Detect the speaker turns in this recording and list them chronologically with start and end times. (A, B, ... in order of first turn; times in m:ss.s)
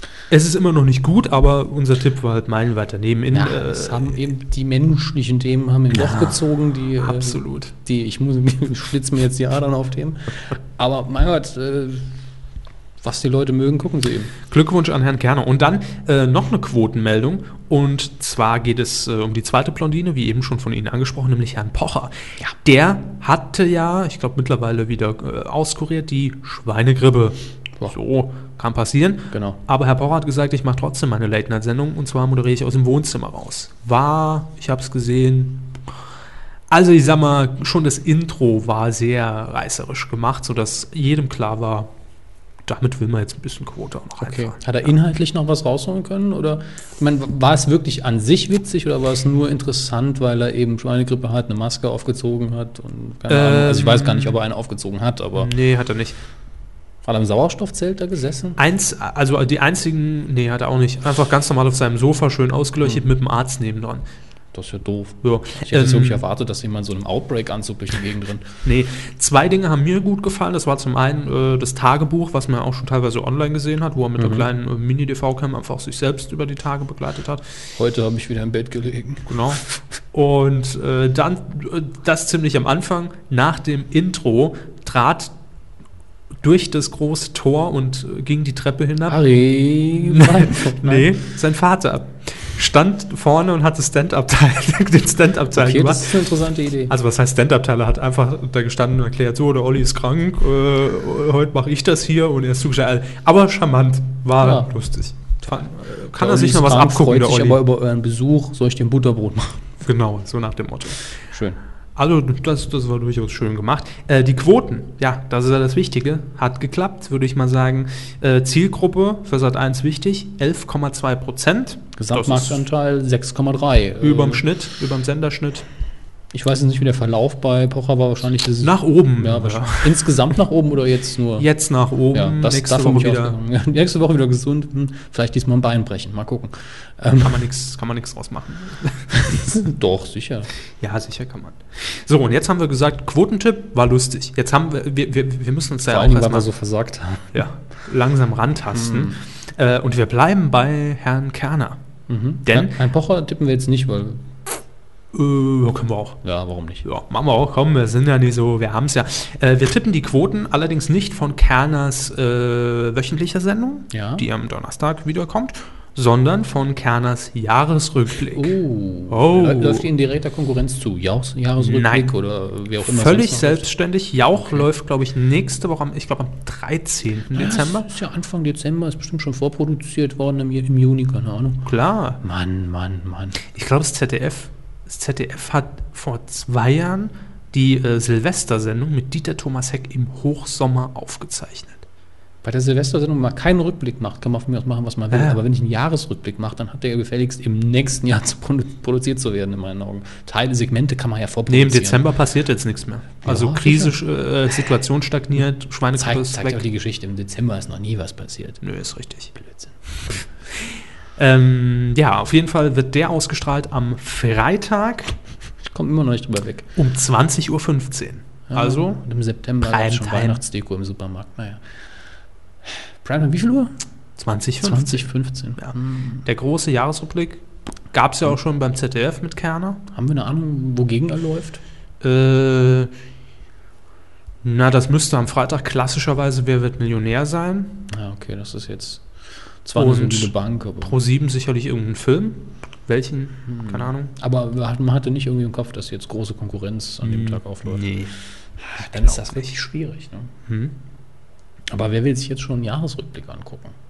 0:00.3-0:04.2 A
0:03.3-0:12.1 B
0:05.9-0:06.4 A
0:07.0-0:07.7 A
0:13.0-0:14.3 B
0:14.5-0:27.4 A
0:27.9-0:35.7 A
0:29.3-0:29.6 B
0:36.7-0:41.9 A
0:42.6-0:44.6 A
0:44.2-0:55.5 B
0:53.3-0:54.4 A
0:55.4-0:56.2 A
0:57.0-0:58.6 B
0:58.6-1:04.0 A
1:04.5-1:08.5 B
1:05.2-1:06.2 A
1:08.6-1:17.4 A
1:14.2-1:14.5 B
1:17.8-1:19.5 B
1:19.3-1:19.6 A
1:20.1-1:25.3 A
1:26.4-1:29.2 A
1:29.1-1:31.1 B
1:30.0-1:36.3 A
1:35.5-1:36.9 B
1:36.9-1:47.6 A
1:44.4-1:44.7 B
1:46.2-1:49.8 B
1:49.8-1:51.0 A
1:51.3-1:51.6 B
1:52.0-2:02.6 A
2:02.0-2:04.4 B
2:04.0-2:05.6 A
2:06.3-2:11.5 B
2:08.6-2:10.1 A
2:11.4-2:13.4 A
2:12.1-2:17.4 B
2:17.2-2:19.1 A
2:19.2-2:20.5 B
2:20.8-2:26.5 A
2:25.8-2:27.4 B
2:27.3-2:31.8 A
2:28.7-2:29.2 B
2:32.1-2:34.2 B
2:32.4-2:32.7 A
2:35.1-2:36.2 A
2:36.2-2:36.8 B
2:36.8-2:48.5 A
2:43.9-2:44.2 B
2:48.3-2:53.7 B
2:49.1-2:49.8 A
2:51.6-2:52.1 A
2:52.8-2:57.9 A
2:54.4-2:54.6 B
2:57.3-3:01.7 B
3:01.6-3:02.2 A
3:02.2-3:03.4 B
3:03.4-3:11.8 A
3:12.4-3:22.1 B
3:15.1-3:15.4 A
3:21.5-3:26.6 A
3:23.2-3:24.0 B
3:25.9-3:28.6 B
3:28.6-3:29.3 A
3:29.4-3:30.2 B
3:30.6-3:35.1 A
3:35.7-3:36.7 B
3:36.8-3:39.0 A
3:38.5-3:41.6 B
3:39.6-3:40.4 A
3:42.7-3:43.7 B
3:44.2-3:45.7 A
3:44.6-3:46.2 B
3:46.2-3:49.8 A
3:49.9-3:51.6 B
3:52.0-3:52.9 A
3:54.4-3:57.8 A
3:57.9-3:59.0 B
3:59.6-4:01.0 B
3:59.8-4:04.1 A
4:03.5-4:07.9 B
4:07.0-4:08.1 A
4:08.6-4:10.3 B
4:08.8-4:09.5 A
4:10.5-4:10.7 A
4:11.7-4:13.7 B